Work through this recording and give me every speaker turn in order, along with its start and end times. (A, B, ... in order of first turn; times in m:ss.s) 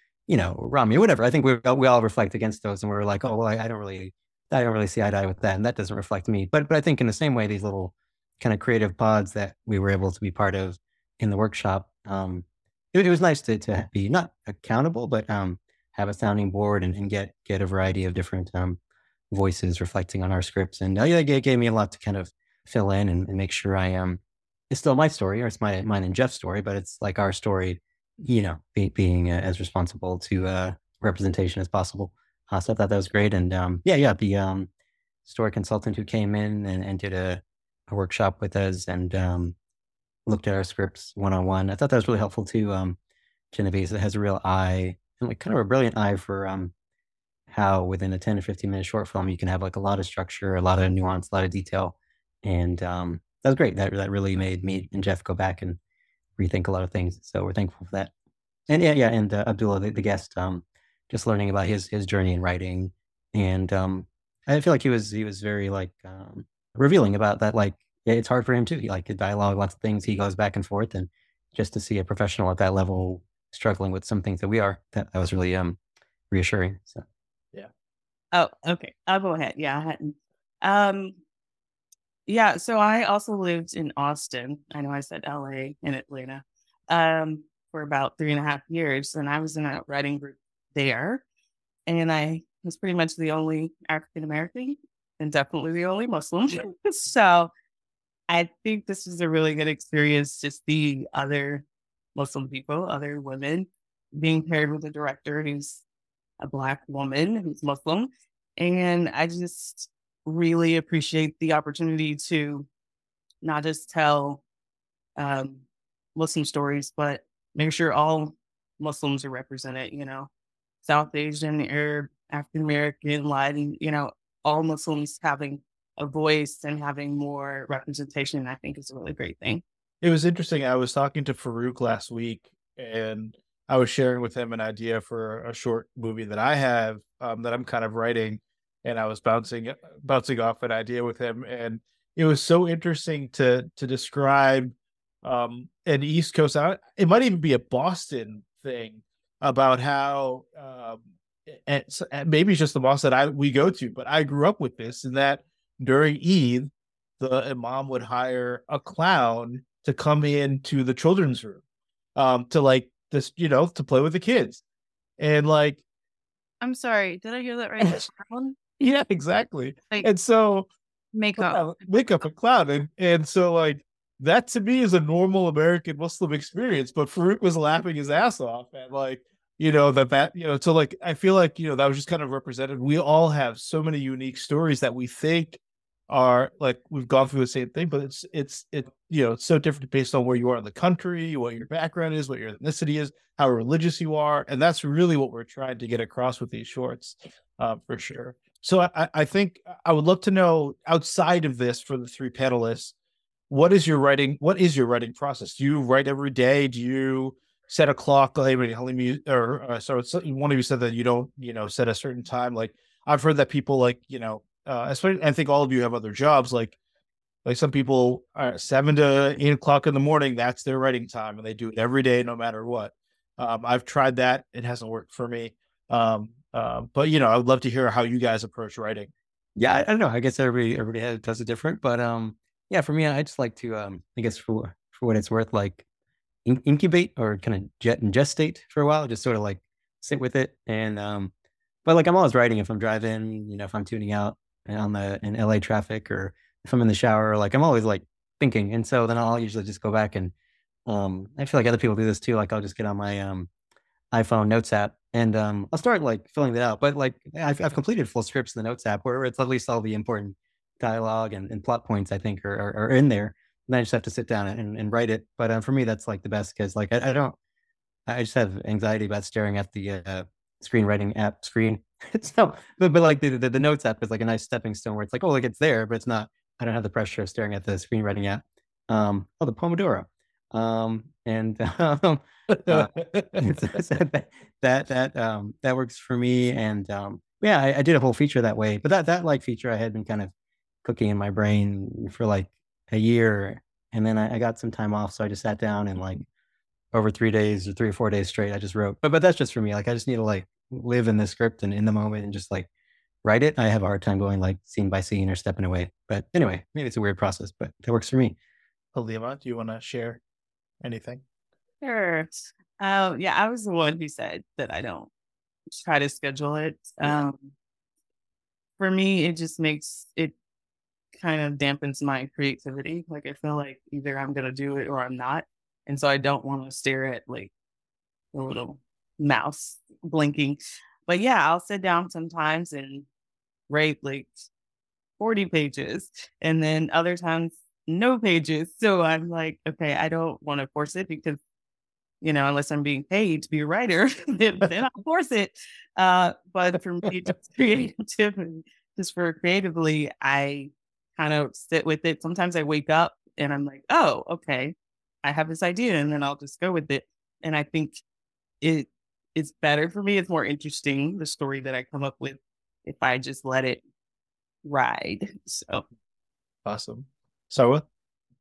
0:00.3-0:18.8 A
0:19.3-0:34.7 A
0:35.2-0:39.6 A
0:40.3-0:43.0 A
0:43.5-0:46.7 A
0:47.5-0:55.8 A
0:56.4-0:58.1 A
0:58.7-1:15.8 A
1:16.3-1:17.0 A
1:18.3-1:21.2 B
1:22.3-1:31.2 B
1:31.9-1:37.5 B
1:38.3-1:45.8 B
1:46.4-1:52.7 B
1:53.4-1:54.4 B
1:55.2-1:55.6 B
1:56.2-2:00.3 B
2:00.8-2:09.6 B
2:10.0-2:41.6 C
2:42.2-2:44.6 C
2:45.2-2:45.8 C
2:46.6-2:48.6 D
2:47.8-2:48.1 C
2:48.8-2:50.7 C
2:51.1-2:51.7 D
2:51.4-3:22.9 C
3:23.5-3:36.8 C
3:37.4-3:49.1 C
3:49.6-3:55.8 A
3:56.4-4:01.3 A
4:01.9-4:10.3 A
4:10.9-4:13.5 A
4:14.1-4:27.4 A
4:28.1-4:50.3 A
4:42.5-4:43.5 C
4:50.8-4:56.3 A
4:56.9-5:02.7 A
5:03.2-5:08.4 A
5:08.9-5:10.2 C
5:10.8-5:11.2 C
5:11.8-5:12.3 D
5:12.8-5:15.1 B
5:15.7-5:17.5 B
5:18.8-5:20.3 B
5:21.2-5:27.5 B
5:28.3-5:33.1 B
5:33.7-5:34.3 B
5:35.2-5:41.4 B
5:42.2-5:58.0 B
5:58.6-6:03.8 B
6:04.6-6:05.8 B
6:06.6-6:07.8 C